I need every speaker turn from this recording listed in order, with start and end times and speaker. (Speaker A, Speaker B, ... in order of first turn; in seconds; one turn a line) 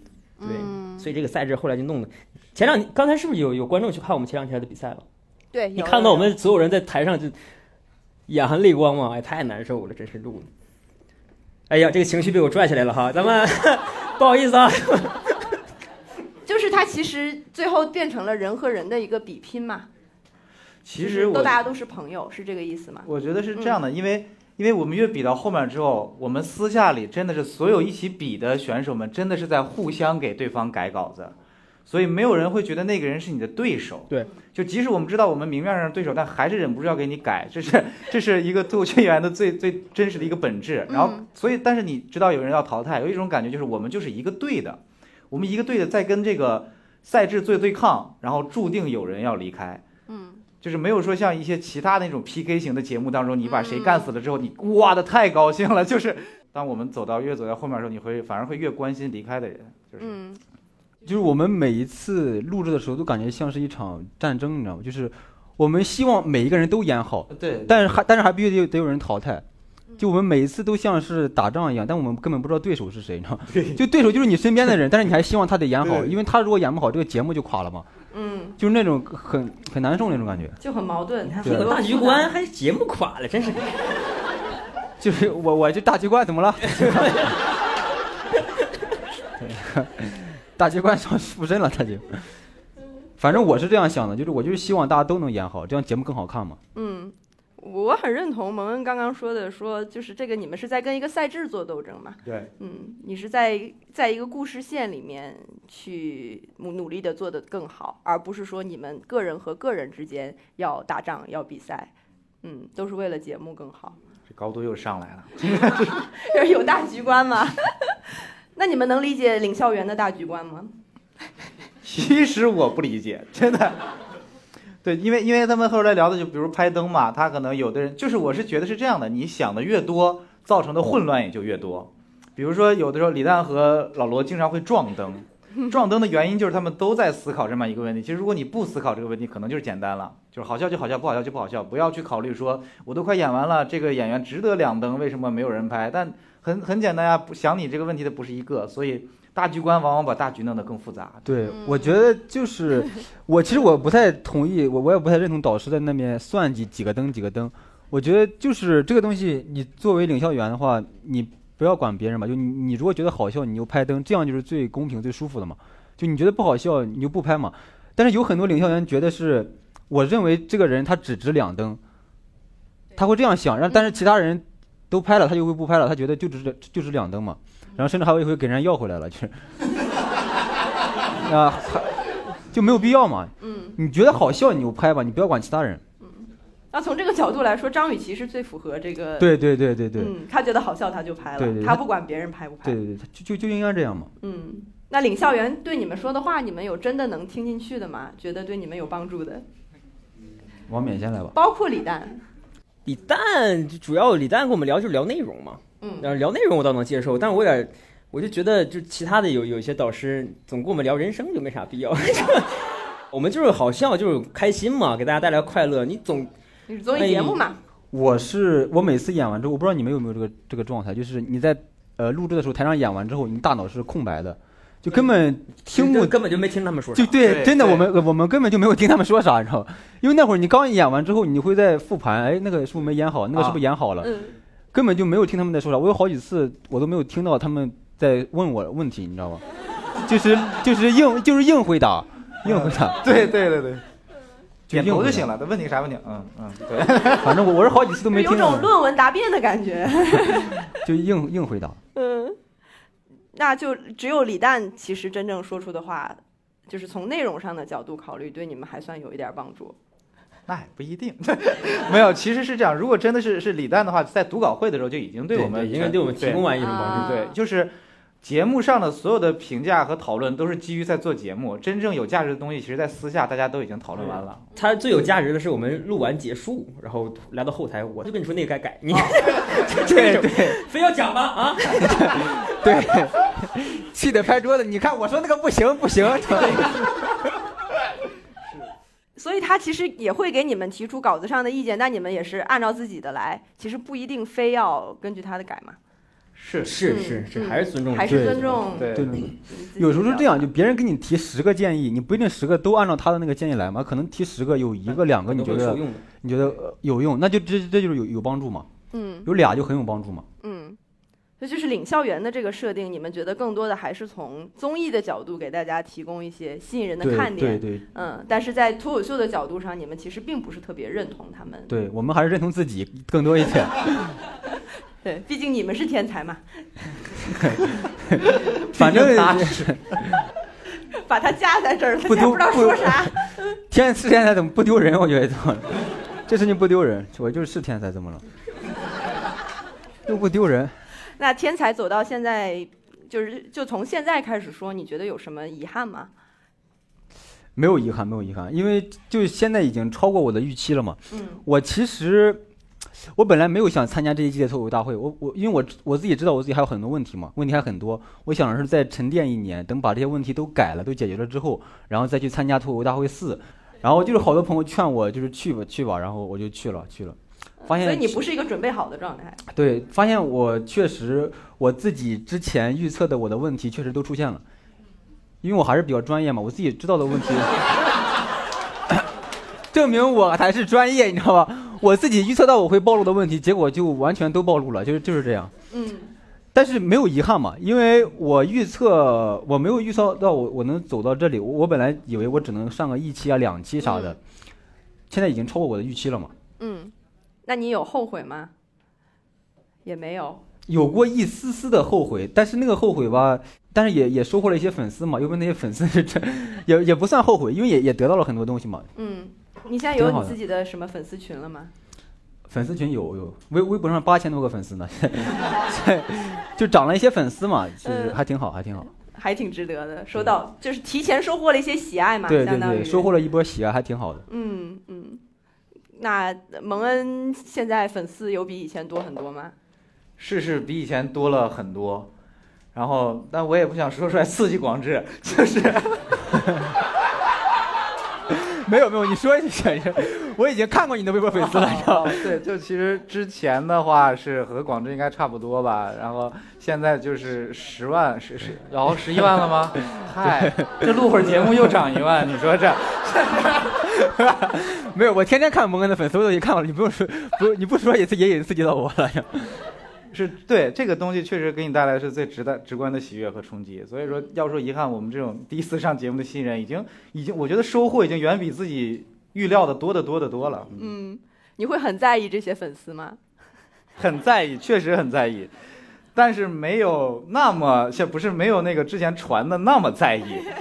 Speaker A: 0.4-1.1
Speaker B: 0.4-5.0
Speaker A: 5.5-6.3
Speaker B: 5.7-7.4
Speaker B: 8.3-10.5
Speaker B: 11.7-15.6
Speaker A: 16.4-19.9
Speaker C: 20.8-21.6
Speaker A: 21.0-23.8
Speaker C: 23.1-31.3
Speaker C: 31.9-49.8
Speaker A: 40.9-41.2
Speaker A: 50.1-50.4
Speaker C: 50.6-60.1
Speaker A: 53.4-54.1
Speaker A: 60.0-60.4
Speaker D: 61.0-69.4
Speaker C: 67.3-68.0
Speaker D: 70.0-77.9
Speaker C: 73.5-73.8
Speaker C: 75.8-76.1
Speaker A: 78.1-78.6
Speaker D: 78.6-80.6
Speaker A: 80.6-82.3
Speaker B: 81.3-83.9
Speaker D: 81.4-81.7
Speaker D: 85.0-87.4
Speaker B: 86.7-87.5
Speaker D: 89.4-92.2
Speaker D: 93.2-96.6
Speaker A: 96.7-111.9
Speaker C: 102.2-102.5
Speaker A: 112.4-114.0
Speaker C: 114.3-116.0
Speaker A: 116.0-120.7
Speaker C: 121.8-123.9
Speaker C: 124.8-151.3
Speaker D: 151.2-171.8
Speaker A: 151.5-152.1
Speaker D: 172.9-179.4
Speaker D: 181.1-185.8
Speaker A: 183.4-183.8
Speaker A: 186.0-189.4
Speaker D: 189.2-190.1
Speaker A: 189.9-192.8
Speaker D: 191.4-191.8
Speaker D: 192.6-194.1
Speaker A: 194.2-199.4
Speaker D: 200.7-201.3
Speaker A: 201.3-202.2
Speaker B: 202.8-216.3
Speaker A: 205.8-206.1
Speaker A: 216.7-217.6
Speaker B: 216.9-217.4
Speaker D: 217.9-226.1
Speaker B: 224.9-227.2
Speaker D: 226.9-234.2
Speaker C: 227.2-227.9
Speaker C: 233.3-233.6
Speaker D: 234.7-239.4
Speaker D: 240.0-243.0
Speaker C: 242.4-243.8
Speaker D: 244.7-245.3
Speaker C: 244.7-247.4
Speaker D: 247.2-248.7
Speaker A: 248.1-250.7
Speaker D: 250.1-251.8
Speaker A: 251.9-252.4
Speaker A: 253.3-259.7
Speaker C: 260.5-274.4
Speaker B: 265.3-267.2
Speaker A: 266.6-267.3
Speaker B: 274.0-282.5
Speaker D: 279.6-280.6
Speaker D: 281.6-287.3
Speaker A: 289.2-295.8
Speaker C: 296.4-296.8
Speaker B: 296.6-298.7
Speaker A: 296.8-300.5
Speaker D: 298.1-308.7
Speaker C: 298.7-299.2
Speaker B: 305.1-306.1
Speaker A: 308.9-309.3
Speaker D: 309.2-310.2
Speaker A: 310.4-310.8
Speaker A: 311.4-321.8
Speaker D: 317.0-317.8
Speaker D: 321.7-324.2
Speaker A: 325.0-326.6
Speaker D: 328.1-330.2
Speaker C: 328.3-329.8
Speaker A: 330.9-333.3
Speaker D: 332.0-338.2
Speaker D: 340.1-340.7
Speaker A: 341.2-346.1
Speaker D: 347.5-352.4
Speaker A: 351.1-351.4
Speaker D: 353.1-368.2
Speaker A: 367.7-369.4
Speaker D: 369.5-374.4
Speaker D: 375.4-377.7
Speaker D: 379.7-385.5
Speaker A: 385.7-386.1
Speaker D: 386.5-394.2
Speaker A: 393.8-394.2
Speaker D: 395.1-396.3
Speaker A: 396.6-396.9
Speaker A: 397.4-398.5
Speaker A: 399.8-400.4
Speaker D: 400.7-408.9
Speaker A: 408.9-411.7
Speaker D: 409.9-410.4
Speaker D: 412.5-418.9
Speaker A: 417.8-418.2
Speaker A: 419.0-423.1
Speaker D: 422.3-424.2
Speaker A: 424.3-425.2
Speaker A: 425.9-429.5
Speaker C: 430.2-432.1
Speaker C: 432.7-436.2
Speaker D: 436.3-436.7
Speaker D: 438.3-442.4
Speaker C: 441.4-453.8
Speaker D: 449.9-451.0
Speaker D: 453.8-459.6
Speaker C: 460.1-470.9
Speaker A: 470.7-473.2
Speaker C: 474.0-475.5
Speaker C: 476.1-480.5